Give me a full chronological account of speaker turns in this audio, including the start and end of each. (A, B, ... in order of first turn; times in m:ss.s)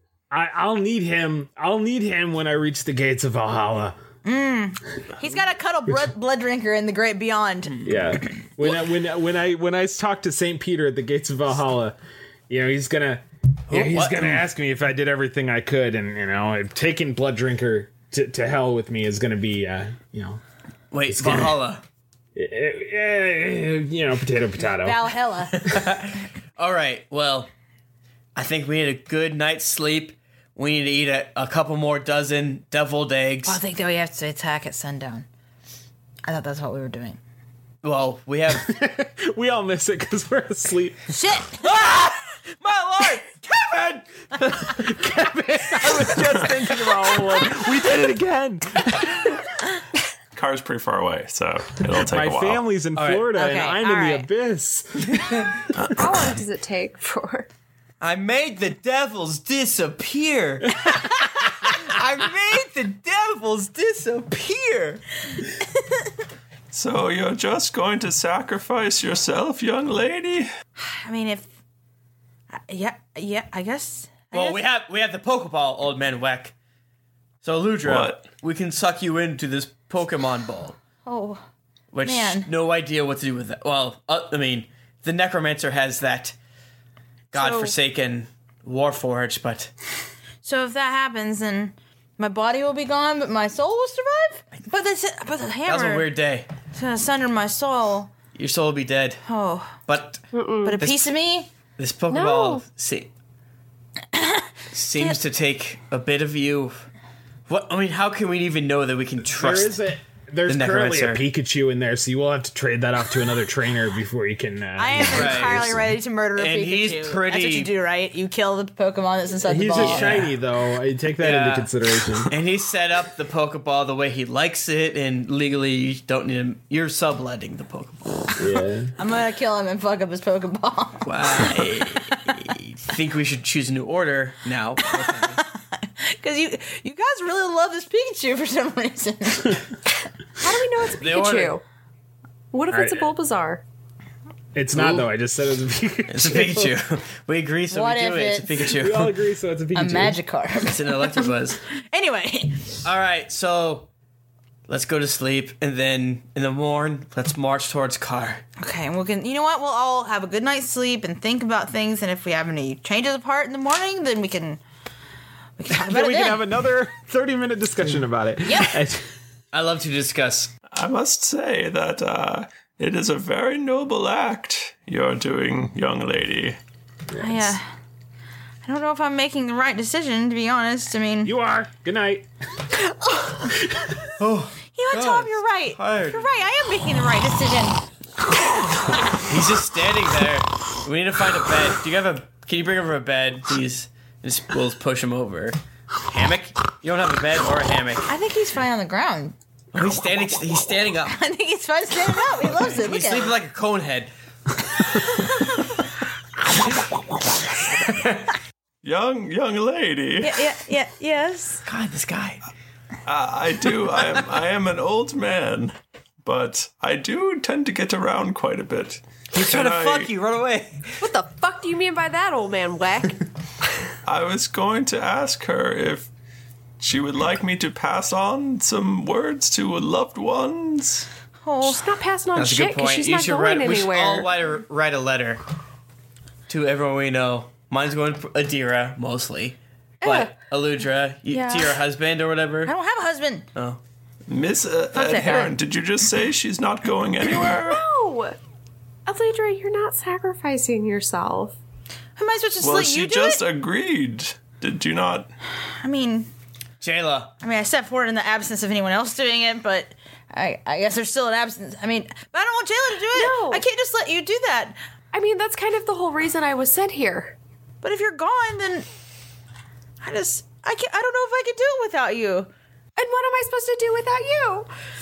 0:00.3-0:04.0 A
0:04.2-0:07.8 B
0:07.8-0:12.0 A
0:12.5-0:20.4 A
0:13.7-0:14.4 C
0:20.9-0:21.8 C
0:21.1-0:21.6 A
0:22.3-0:25.1 A
0:24.8-0:25.6 B
0:25.6-0:27.5 C
0:28.4-0:33.6 C
0:33.4-0:35.2 B
0:36.2-0:37.2 B
0:37.8-0:38.8 C
0:38.5-0:41.1 A
0:41.1-0:41.6 B
0:41.6-0:44.8 C
0:44.7-0:49.4 A
0:45.8-0:46.2 C
0:50.3-0:52.6 D
0:52.0-0:55.4 A
0:52.9-0:53.3 C
0:53.3-0:54.3 B
0:55.1-0:55.4 C
0:55.8-0:56.0 D
0:56.0-0:57.5 E
0:58.0-1:01.1 C
1:01.6-1:05.0 C
1:06.7-1:10.5 D
1:10.8-1:11.5 B
1:12.5-1:14.6 B
1:14.3-1:16.5 C
1:17.4-1:20.8 C
1:17.8-1:18.2 D
1:21.0-1:21.4 B
1:21.9-1:26.4 C
1:22.0-1:22.5 B
1:27.3-1:27.7 B
1:27.3-1:29.7 C
1:30.4-1:36.1 B
1:35.6-1:36.5 C
1:36.7-1:38.1 B
1:38.3-1:39.2 C
1:39.3-1:39.8 B
1:39.9-1:40.2 C
1:40.3-1:40.8 E
1:40.6-1:41.5 B
1:40.8-1:41.1 C
1:41.8-1:43.1 C
1:42.1-1:42.6 E
1:44.1-1:44.4 B
1:44.7-1:46.8 C
1:47.5-1:49.8 C
1:49.2-1:55.9 A
1:50.4-1:51.2 C
1:54.8-2:00.2 B
1:55.1-1:55.8 C
1:56.3-1:57.7 C
1:59.4-2:02.3 A
1:59.8-2:00.3 C
2:01.2-2:01.7 C
2:02.3-2:08.4 C
2:08.4-2:08.9 A
2:09.0-2:11.1 B
2:11.0-2:15.4 C
2:15.7-2:19.7 B
2:20.4-2:21.6 E
2:21.0-2:21.6 C
2:22.5-2:23.6 E
2:22.7-2:23.1 A
2:24.5-2:26.8 A
2:24.7-2:25.1 C
2:26.1-2:29.1 C
2:27.7-2:28.5 B
2:28.7-2:30.2 A
2:29.7-2:31.1 B
2:30.7-2:31.6 C
2:31.9-2:32.7 B
2:32.8-2:33.9 C
2:34.7-2:38.4 C
2:38.6-2:44.6 B
2:45.6-2:46.4 B
2:45.7-2:49.1 A
2:48.4-2:48.7 B
2:49.5-2:50.5 C
2:50.7-2:56.6 D
2:57.1-2:57.6 A
2:57.2-2:57.7 B
2:58.6-3:01.3 B
3:01.2-3:02.2 A
3:04.2-3:06.4 C
3:04.7-3:07.8 B
3:09.2-3:18.0 C
3:18.1-3:19.3 B
3:19.7-3:21.2 C
3:21.1-3:23.4 B
3:22.5-3:24.1 C
3:28.8-3:30.4 D
3:30.2-3:31.6 B
3:31.6-3:32.4 C
3:33.0-3:40.1 D
3:39.3-3:41.0 C
3:41.0-3:43.2 E
3:44.0-3:46.1 D
3:46.8-3:51.1 D
3:51.4-3:51.8 B
3:51.6-3:54.3 E
3:52.4-3:55.4 C
3:56.5-4:02.7 C
4:00.0-4:00.4 E
4:01.3-4:01.8 E
4:02.6-4:03.4 B
4:03.5-4:03.8 C
4:04.3-4:07.8 D
4:04.9-4:05.5 B
4:07.6-4:08.4 E
4:09.0-4:11.6 E
4:12.2-4:13.4 B
4:12.6-4:15.3 D
4:15.7-4:16.3 B
4:16.8-4:17.3 C
4:17.4-4:24.8 B
4:23.1-4:23.6 E
4:25.1-4:27.4 E
4:27.8-4:28.9 B
4:30.0-4:32.5 B
4:33.0-4:34.7 E